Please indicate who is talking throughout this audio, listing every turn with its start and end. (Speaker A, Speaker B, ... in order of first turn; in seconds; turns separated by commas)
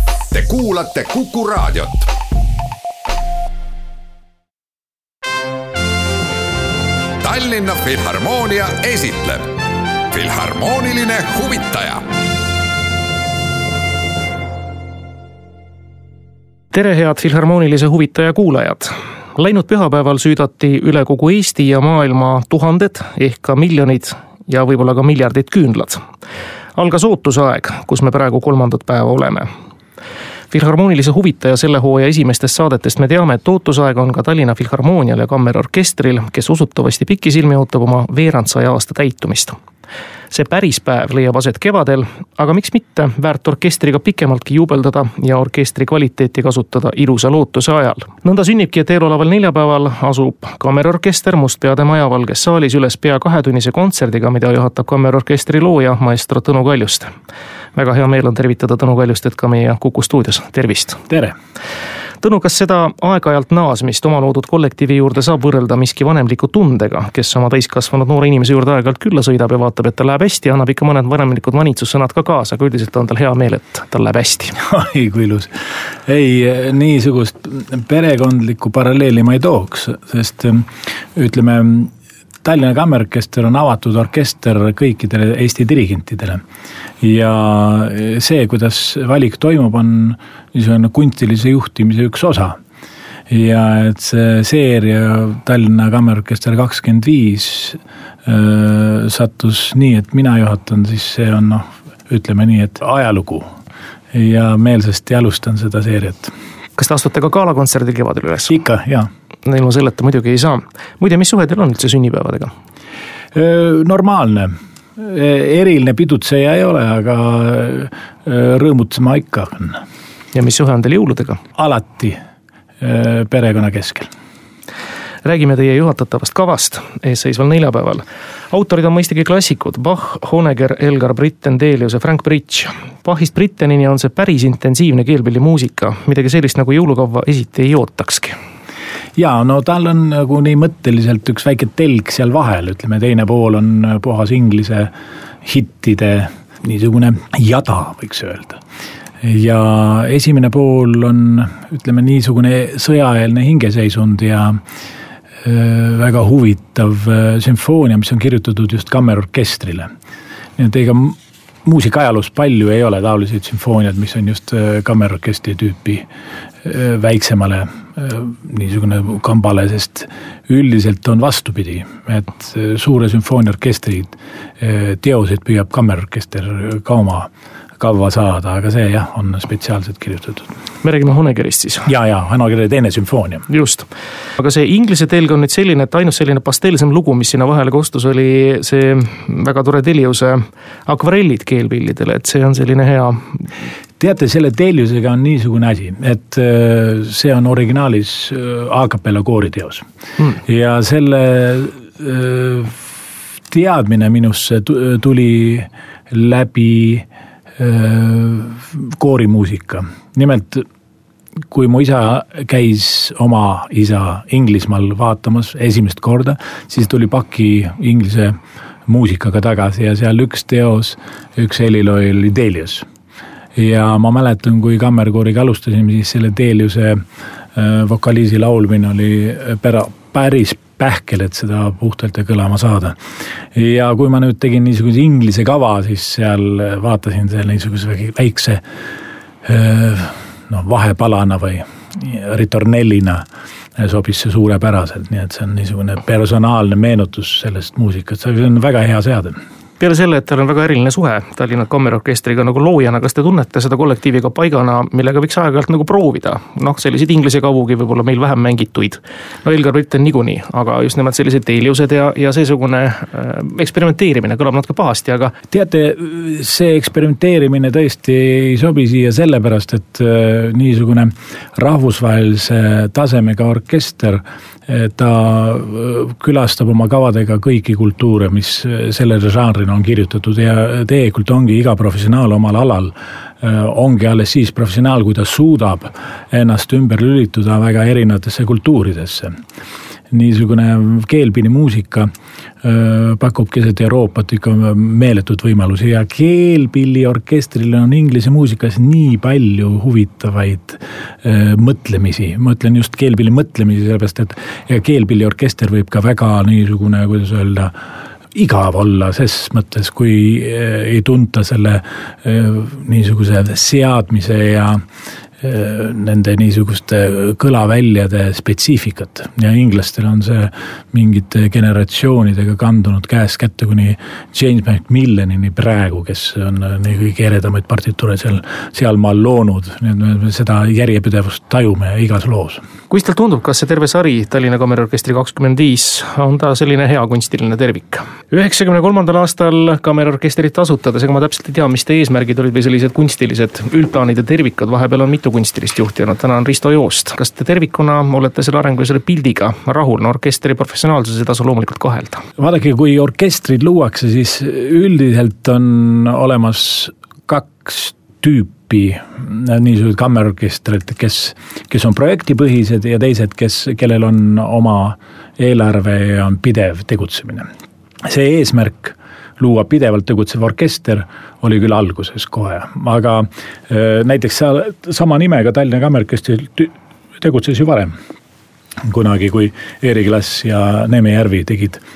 Speaker A: 0.3-2.1, Speaker A: 7.2-9.5, Speaker A: 10.1-12.0, Speaker B: 16.7-26.0, Speaker B: 26.8-29.5, Speaker B: 30.5-39.5, Speaker B: 40.3-57.1, Speaker B: 57.8-61.0, Speaker C: 61.1-61.4, Speaker B: 62.2-74.6, Speaker C: 74.6-75.5, Speaker C: 76.1-81.9, Speaker C: 82.4-86.4, Speaker C: 87.0-92.6, Speaker C: 93.3-103.5, Speaker C: 104.1-106.3, Speaker B: 106.8-108.6, Speaker C: 108.5-109.1, Speaker B: 109.5-112.5, Speaker C: 113.3-119.8, Speaker B: 120.3-121.4, Speaker C: 121.6-122.2, Speaker C: 122.8-124.1, Speaker B: 125.2-138.3, Speaker C: 139.2-144.9, Speaker C: 145.4-148.6, Speaker C: 149.2-154.6, Speaker C: 155.4-159.9, Speaker C: 160.6-166.1, Speaker C: 166.6-180.5, Speaker B: 180.8-181.9, Speaker C: 181.9-183.5, Speaker B: 183.5-183.9, Speaker B: 184.4-193.5, Speaker C: 194.0-202.9, Speaker C: 203.5-207.1, Speaker C: 207.6-210.7, Speaker C: 211.5-222.9, Speaker C: 223.6-227.0, Speaker C: 227.6-233.0, Speaker C: 233.5-238.6, Speaker C: 239.4-243.2, Speaker C: 243.8-249.4, Speaker B: 249.8-265.3, Speaker C: 265.5-289.3, Speaker C: 290.1-292.1, Speaker C: 292.6-307.7, Speaker C: 308.4-314.8, Speaker C: 315.4-332.6, Speaker B: 332.9-352.2, Speaker C: 352.4-367.5, Speaker C: 368.1-377.9, Speaker C: 378.8-381.8